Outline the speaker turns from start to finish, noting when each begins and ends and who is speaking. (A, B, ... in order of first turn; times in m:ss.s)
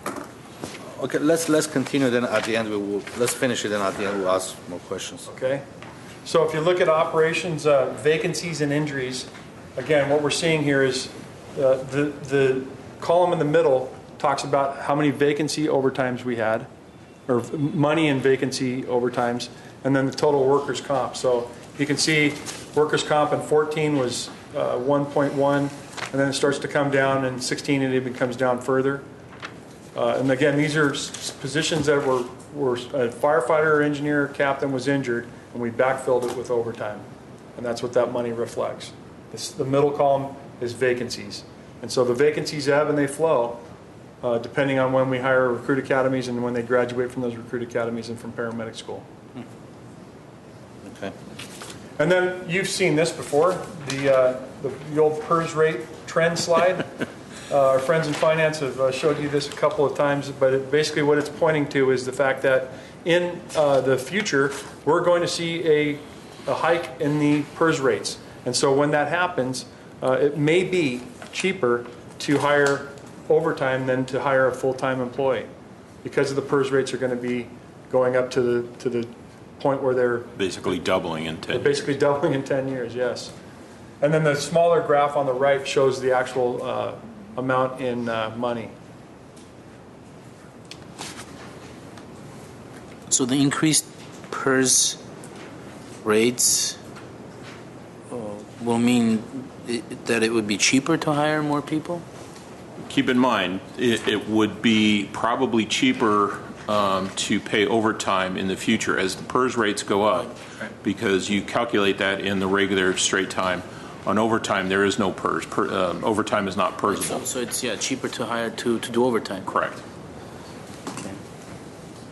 0:00.8-0:05.3 A
0:05.3-0:05.6 B
0:06.2-0:16.7 B
0:17.3-0:29.0 B
0:30.0-0:43.6 B
0:44.2-0:49.1 B
0:50.8-0:51.1 A
0:52.0-0:56.9 B
0:57.5-1:15.5 B
1:16.0-1:20.3 B
1:20.4-1:22.0 C
1:21.5-1:23.3 B
1:24.0-1:28.7 B
1:33.1-1:35.0 D
1:36.0-1:36.8 D
1:38.1-1:42.0 D
1:42.8-1:57.2 C
1:56.9-1:59.5 D
1:59.5-1:59.8 C